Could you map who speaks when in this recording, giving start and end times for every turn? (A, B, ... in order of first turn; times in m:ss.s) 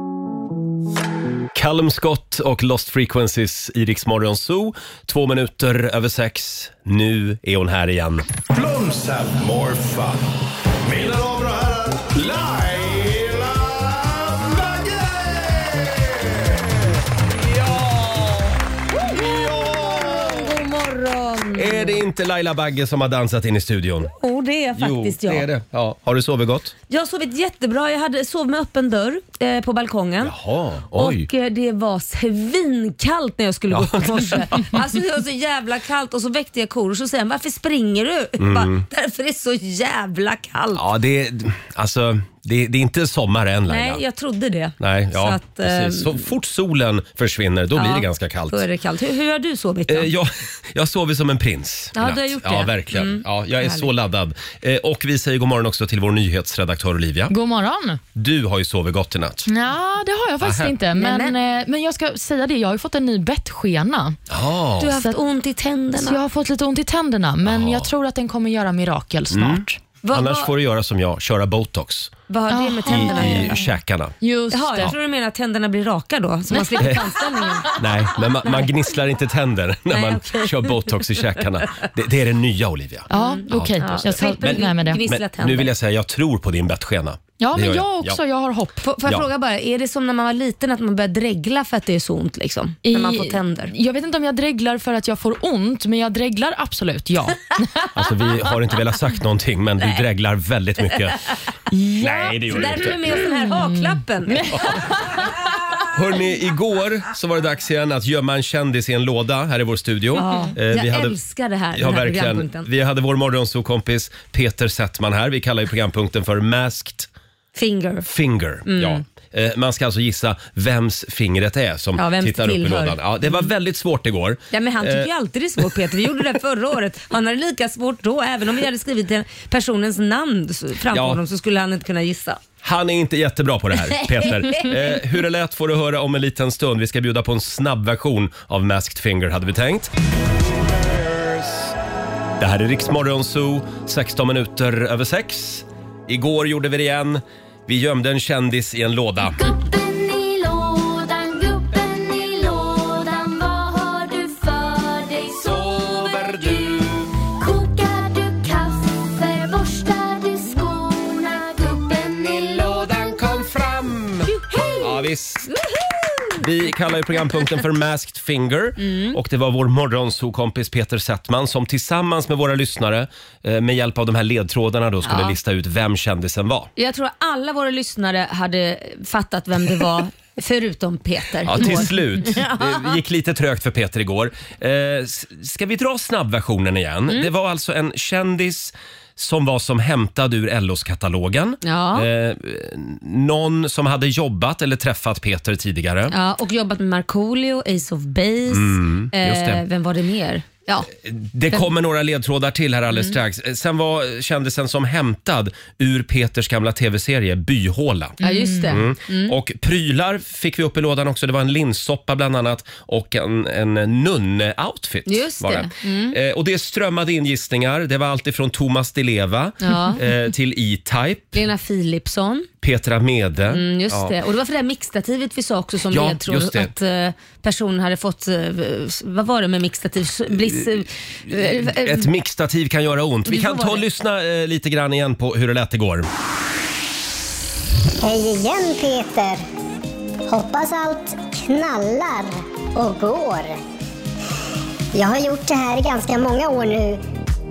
0:01.5-0:08.2 A
0:08.5-0:10.2 B
0:10.9-0:16.5 B
0:17.8-0:18.4 A
0:19.1-0:22.0 C
0:19.3-0:20.3 B
0:21.5-0:24.1 A
0:24.2-0:25.5 C
0:24.8-0:26.7 A
0:26.9-0:30.4 C
0:30.2-0:31.3 A
0:30.9-0:40.8 C
0:33.7-0:34.8 A
0:38.4-0:38.8 A
0:40.8-0:44.0 A
0:43.7-0:46.2 C
0:44.8-0:48.6 A
0:47.7-0:50.1 C
0:49.9-0:57.3 A
0:52.0-0:53.9 C
0:57.3-0:58.0 D
0:58.1-0:59.5 A
0:59.4-1:04.2 D
1:00.4-1:00.7 A
1:01.0-1:01.3 C
1:04.3-1:04.9 A
1:04.8-1:06.2 C
1:05.9-1:09.8 D
1:07.4-1:07.9 A
1:09.3-1:12.1 A
1:10.0-1:10.5 C
1:12.3-1:13.7 C
1:12.5-1:13.7 D
1:12.9-1:14.1 A
1:14.2-1:14.9 D
1:14.5-1:17.7 C
1:16.8-1:17.1 A
1:17.7-1:28.2 A
1:19.9-1:21.2 C
1:23.1-1:25.0 D
1:23.1-1:25.7 C
1:27.4-1:28.8 D
1:28.8-1:33.7 C
1:32.8-1:37.8 D
1:37.9-1:41.3 A
1:41.7-1:42.3 D
1:42.0-1:43.2 A
1:42.2-1:44.8 C
1:43.1-1:44.7 D
1:44.5-1:44.9 A
1:45.9-1:51.2 A
1:50.1-1:52.7 C
1:50.2-1:50.5 D
1:51.7-1:57.1 A
1:57.5-1:58.0 C
1:58.0-2:05.1 A
1:58.6-1:59.0 C
2:02.0-2:03.5 C
2:04.5-2:12.4 C
2:10.9-2:11.2 A
2:12.6-2:19.9 A
2:14.0-2:14.8 C
2:20.7-2:21.7 A
2:22.4-2:29.4 A
2:29.2-2:43.4 E
2:35.4-2:37.0 A
2:42.1-2:45.5 A
2:44.2-2:46.4 C
2:46.4-2:56.7 A
2:48.8-2:49.2 C
2:55.0-2:55.4 C
2:56.8-3:03.0 C
3:01.4-3:16.1 A
3:11.6-3:12.1 C
3:16.1-3:20.9 C
3:18.5-3:19.6 A
3:20.9-3:28.2 A
3:22.9-3:23.2 C
3:28.2-3:28.7 D
3:28.2-3:29.3 C
3:28.7-3:41.4 A
3:35.0-3:36.2 C
3:39.6-3:40.0 C
3:41.3-3:42.5 C
3:42.6-3:44.1 A
3:43.5-3:52.1 C
3:45.9-3:46.7 A
3:51.3-3:56.1 A
3:53.2-3:53.8 C
3:58.0-3:59.4 F
4:00.3-4:03.5 F
4:04.9-4:07.0 F